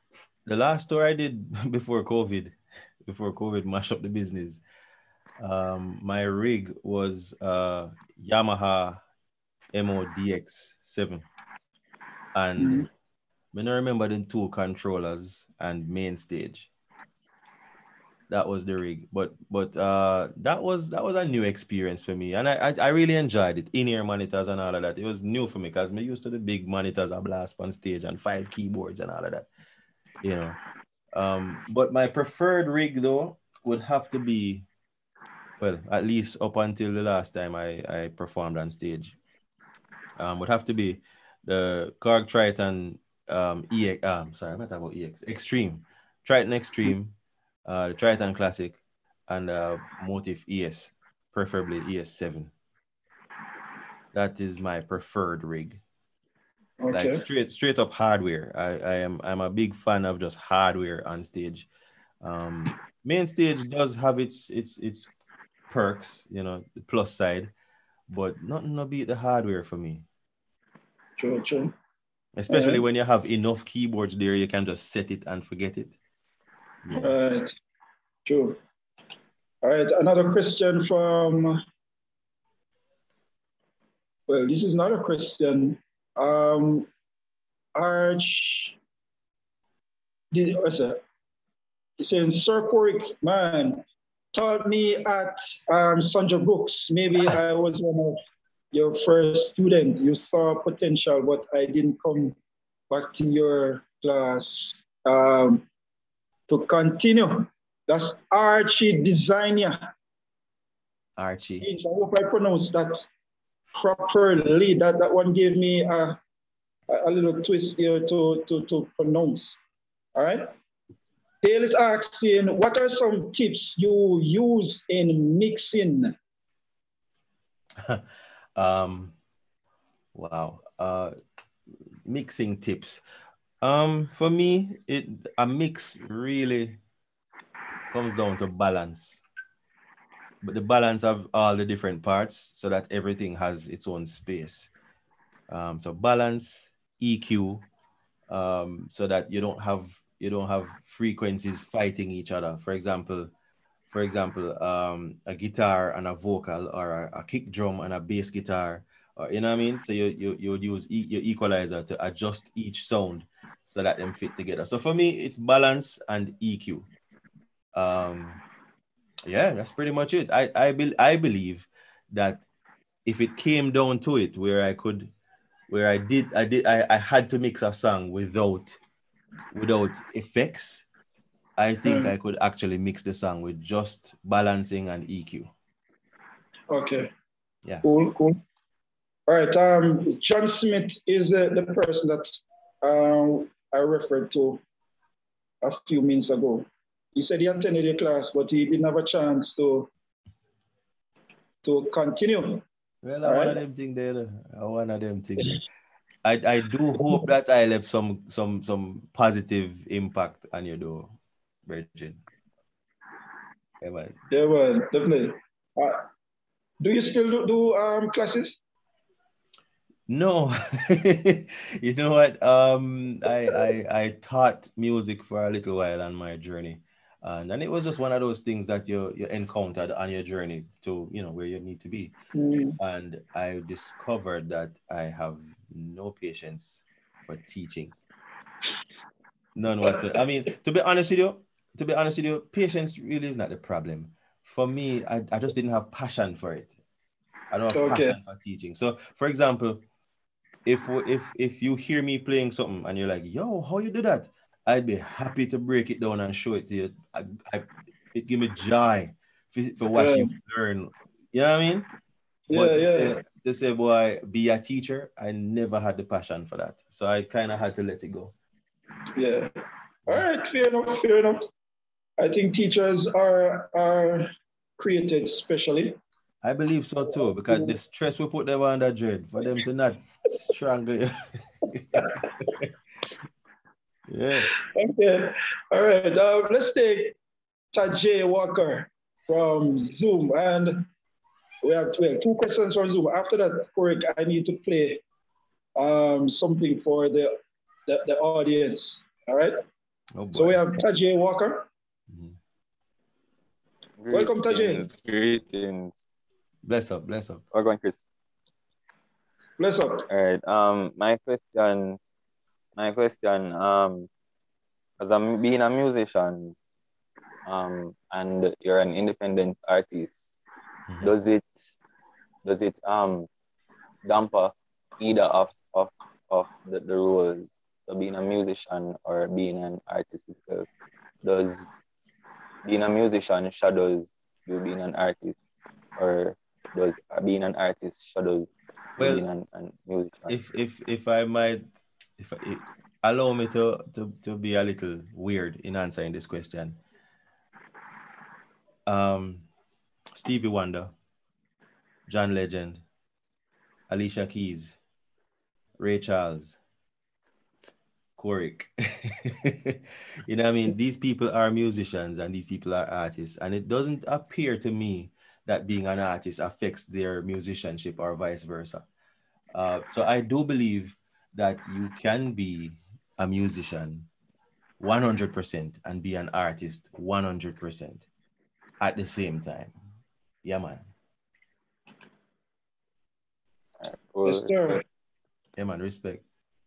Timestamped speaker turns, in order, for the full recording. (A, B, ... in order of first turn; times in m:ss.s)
0:00.4-0:04.6 A
0:05.4-0:09.0 A
0:09.7-0:11.2 A
0:12.3-0:12.9 A
0:12.6-0:12.9 B
0:13.5-0:16.7 A
0:18.3-0:29.5 A
0:30.2-0:30.6 A
0:31.1-0:34.7 A
0:35.6-0:39.2 A
0:40.2-0:52.5 A
0:54.1-0:55.8 A
0:56.8-0:57.2 B
0:56.9-1:01.7 A
1:02.2-1:05.1 A
1:05.7-1:07.5 A
1:08.1-1:10.0 A
1:11.2-1:11.7 B
1:12.4-1:16.0 A
1:12.5-1:12.8 B
1:16.8-1:17.2 A
1:17.0-1:17.5 B
1:18.2-1:18.6 B
1:19.6-1:21.6 B
1:24.3-1:26.9 B
1:27.8-1:28.8 B
1:30.3-1:31.0 B
1:32.0-1:33.8 B
1:34.3-1:38.2 B
1:38.7-1:42.4 B
1:42.9-1:45.6 B
1:46.5-1:49.9 B
1:51.2-1:51.6 A
1:51.6-1:53.0 B
1:53.7-1:56.2 B
1:56.9-1:59.6 B
2:00.1-2:00.5 B
2:01.4-2:06.1 B
2:08.6-2:09.1 A
2:10.1-2:11.1 A
2:12.0-2:13.0 A
2:13.6-2:16.8 A
2:17.9-2:19.2 A
2:20.4-2:24.7 A
2:25.5-2:27.6 A
2:28.3-2:33.3 A
2:33.9-2:46.9 A
2:47.7-2:48.4 A
2:49.2-2:52.4 A
2:53.0-2:55.1 A
2:55.7-2:58.8 A
2:59.5-3:00.8 A
3:01.6-3:05.5 A
3:01.8-3:02.1 B
3:06.7-3:07.1 B
3:07.8-3:08.4 B
3:09.3-3:14.6 B
3:15.6-3:19.9 B
3:21.6-3:22.6 B
3:23.0-3:25.6 A
3:23.2-3:23.6 B
3:26.2-3:32.2 A
3:33.8-3:34.2 A
3:34.3-3:36.0 B
3:36.8-3:38.5 B
3:40.1-3:52.1 A
3:52.3-3:52.8 B
3:52.8-3:57.9 A
3:59.6-4:06.7 A
4:07.5-4:09.8 A
4:07.7-4:08.2 B
4:10.6-4:21.9 A
4:19.9-4:20.3 B
4:22.5-4:23.2 B
4:22.5-4:28.3 A
4:29.2-4:29.5 B
4:30.1-4:31.4 B
4:32.2-4:36.0 B
4:36.4-4:41.1 A
4:41.7-4:42.1 A
4:41.9-4:42.5 B
4:44.1-4:44.5 A
4:44.7-4:47.2 B
4:47.7-4:50.9 B
4:51.6-4:55.0 B
4:55.8-4:57.4 B
4:57.9-4:59.6 B
5:00.1-5:00.6 A
5:00.3-5:01.7 B
5:02.1-5:02.4 A
5:04.0-5:06.0 C
5:04.1-5:04.9 B
5:06.6-5:07.4 A
5:07.5-5:08.1 C
5:09.6-5:10.1 B
5:10.1-5:12.0 C
5:12.8-5:14.1 C
5:15.0-5:16.6 C
5:17.4-5:20.3 C
5:21.0-5:21.5 C
5:22.4-5:23.3 C
5:24.0-5:30.7 C
5:31.2-5:31.8 C
5:32.6-5:35.4 C
5:36.0-5:40.3 C
5:39.0-5:39.2 A
5:40.3-5:41.6 A
5:42.2-5:46.8 A
5:48.9-5:49.4 A
5:50.1-5:50.9 A
5:52.1-5:52.8 A
5:53.9-5:54.8 A
5:55.8-5:56.6 A
5:58.2-6:08.8 A
6:09.5-6:14.1 A
6:14.8-6:18.0 A
6:18.8-6:19.7 A
6:20.4-6:20.9 A
6:23.8-6:24.8 C
6:24.2-6:24.8 B
6:25.6-6:26.2 A